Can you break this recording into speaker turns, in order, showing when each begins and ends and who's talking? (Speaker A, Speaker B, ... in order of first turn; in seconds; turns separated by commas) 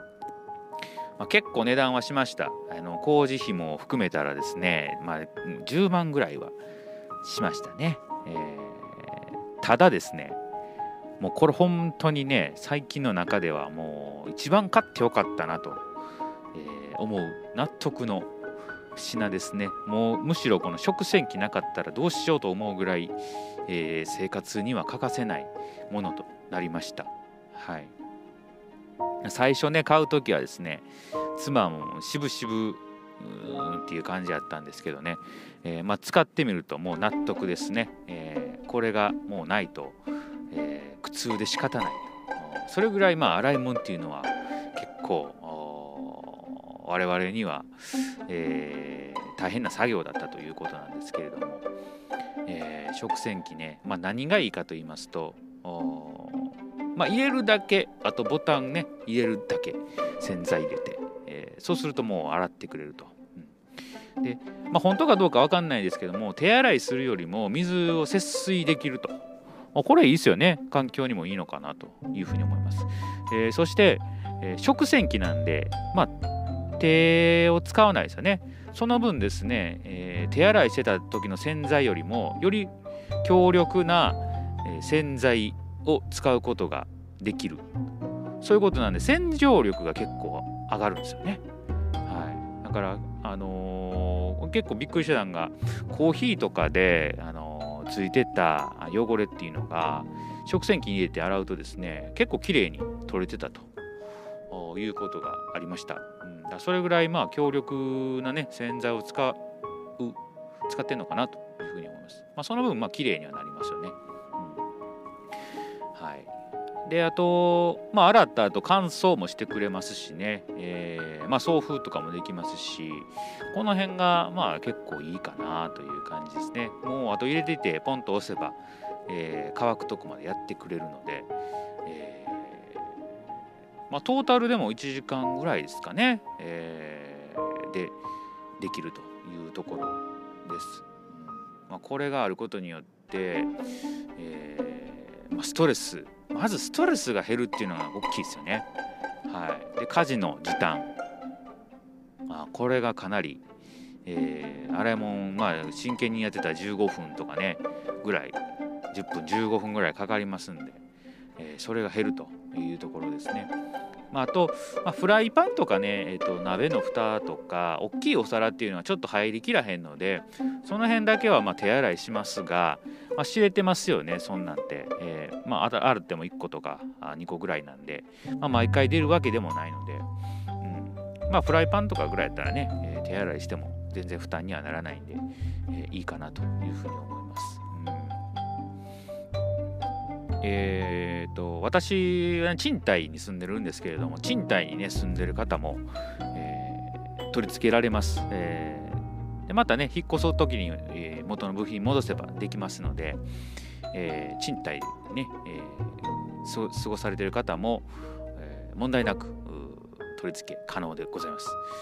Speaker A: 1.2-6.5, Speaker A: 7.2-10.4, Speaker A: 11.2-15.8, Speaker A: 16.5-18.3, Speaker A: 18.9-27.9, Speaker A: 29.2-51.7, Speaker A: 52.4-63.6, Speaker A: 64.2-76.1, Speaker A: 76.8-87.6, Speaker A: 88.4-91.4, Speaker A: 92.0-103.7, Speaker A: 104.5-109.4, Speaker A: 110.0-114.6, Speaker A: 115.9-116.3, Speaker A: 116.8-131.3, Speaker A: 131.8-132.9, Speaker A: 133.9-138.0, Speaker A: 138.6-143.5, Speaker A: 144.2-148.7, Speaker A: 149.3-150.9, Speaker A: 152.3-153.4, Speaker A: 154.0-158.4, Speaker A: 158.9-160.8, Speaker A: 161.4-163.5, Speaker A: 164.1-180.1, Speaker A: 180.6-188.2, Speaker A: 190.4-203.2, Speaker A: 203.9-211.6